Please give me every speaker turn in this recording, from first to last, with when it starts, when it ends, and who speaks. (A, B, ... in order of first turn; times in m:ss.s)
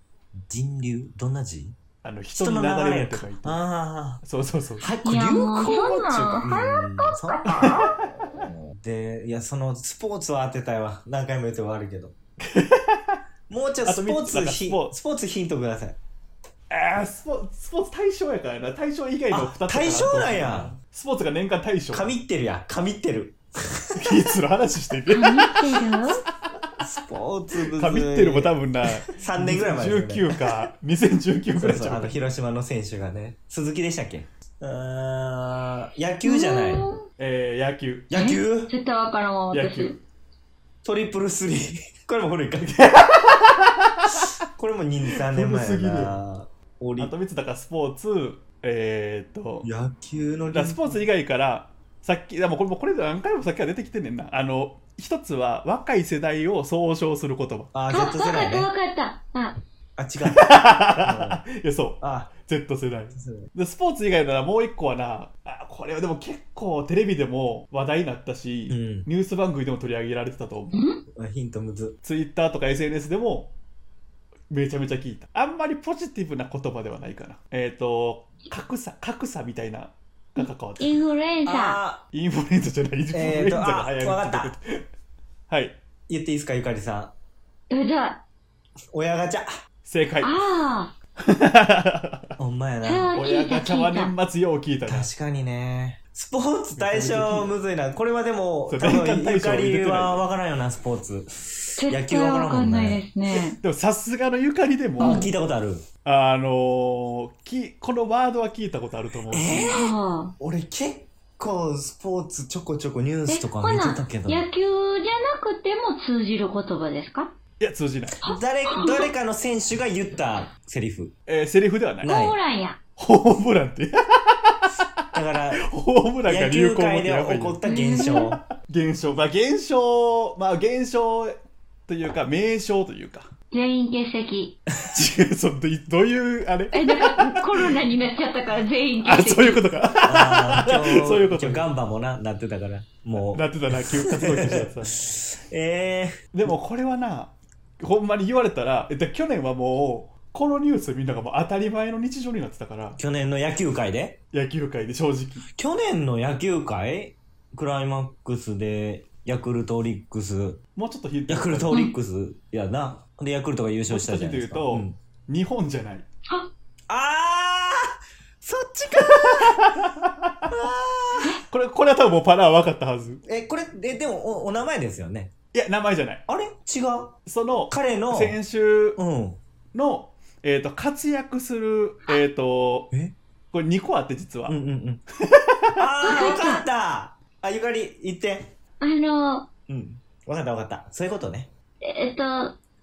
0:00.4-0:01.8 A
0:02.0-0:03.6 B
0:02.3-0:04.2 A
0:04.2-0:04.9 B
0:04.8-0:12.2 A
0:05.0-0:07.9 C
0:07.5-0:08.3 B
0:12.4-0:13.2 B
0:13.5-0:16.0 A
0:13.8-0:14.9 B
0:16.7-0:22.2 B
0:19.3-0:20.8 A
0:21.9-0:24.4 A
0:24.0-0:25.6 B
0:25.1-0:26.2 C
0:26.8-0:30.4 A
0:27.7-0:32.2 B
0:31.6-0:36.9 A
0:36.2-0:37.1 C
0:37.2-0:38.1 B
0:38.1-0:38.7 A
0:38.1-0:40.0 C
0:39.5-0:40.0 B
0:40.8-0:42.7 A
0:42.6-0:44.3 B
0:44.6-0:47.1 A
0:45.3-0:46.2 B
0:47.0-0:49.7 B
0:49.6-0:51.0 A
0:50.5-0:57.7 B
0:57.7-0:58.7 A
0:57.9-0:59.6 C
1:00.0-1:01.4 A
1:00.3-1:10.9 B
1:02.0-1:02.3 A
1:03.1-1:03.5 A
1:08.7-1:09.1 A
1:10.7-1:11.0 C
1:11.1-1:12.0 A
1:12.0-1:13.5 B
1:14.5-1:21.0 B
1:20.4-1:21.8 C
1:21.4-1:22.0 A
1:22.1-1:24.8 B
1:23.1-1:24.6 A
1:25.5-1:25.8 B
1:26.1-1:27.1 A
1:27.7-1:28.2 C
1:28.9-1:29.5 A
1:29.9-1:30.4 B
1:30.2-1:30.9 C
1:31.3-1:32.3 B
1:32.4-1:33.2 A
1:32.8-1:34.2 C
1:33.2-1:35.1 B
1:34.8-1:43.0 A
1:36.7-1:37.6 B
1:38.7-1:40.2 B
1:41.8-1:43.6 C
1:43.6-1:45.3 B
1:45.0-1:45.3 C
1:45.0-1:45.9 A
1:46.0-1:49.7 B
1:49.3-1:54.5 A
1:49.5-1:50.3 C
1:53.3-1:57.3 C
1:57.6-1:58.2 B
1:58.2-1:59.1 C
1:58.2-2:01.1 A
2:01.3-2:02.1 B
2:02.0-2:02.4 A
2:02.0-2:02.8 C
2:03.0-2:04.7 B
2:04.7-2:05.6 A
2:05.6-2:11.3 B
2:06.3-2:08.4 A
2:07.6-2:08.3 C
2:11.9-2:13.3 B
2:13.5-2:14.6 C
2:14.9-2:17.8 B
2:16.7-2:19.6 C
2:19.0-2:21.7 B
2:20.1-2:26.2 A
2:23.1-2:25.0 B
2:26.3-2:33.0 B
2:33.0-2:34.2 A
2:34.3-2:35.4 B
2:35.5-2:40.6 A
2:40.8-2:41.8 B
2:41.3-2:45.0 A
2:41.7-2:42.0 C
2:43.9-2:46.1 B
2:46.9-2:49.8 A
2:49.3-2:50.6 B
2:50.5-2:51.4 A
2:51.5-2:53.2 B
2:53.3-2:55.3 A
2:55.5-2:56.2 B
2:56.3-2:57.2 A
2:57.3-2:59.0 B
2:57.7-2:58.4 A
2:59.0-2:59.4 A
2:59.7-3:02.9 B
3:03.5-3:04.6 B
3:04.5-3:05.0 A
3:05.3-3:06.1 B
3:05.8-3:08.5 A
3:06.0-3:06.6 C
3:08.8-3:09.5 C
3:09.7-3:11.5 A
3:11.8-3:12.6 C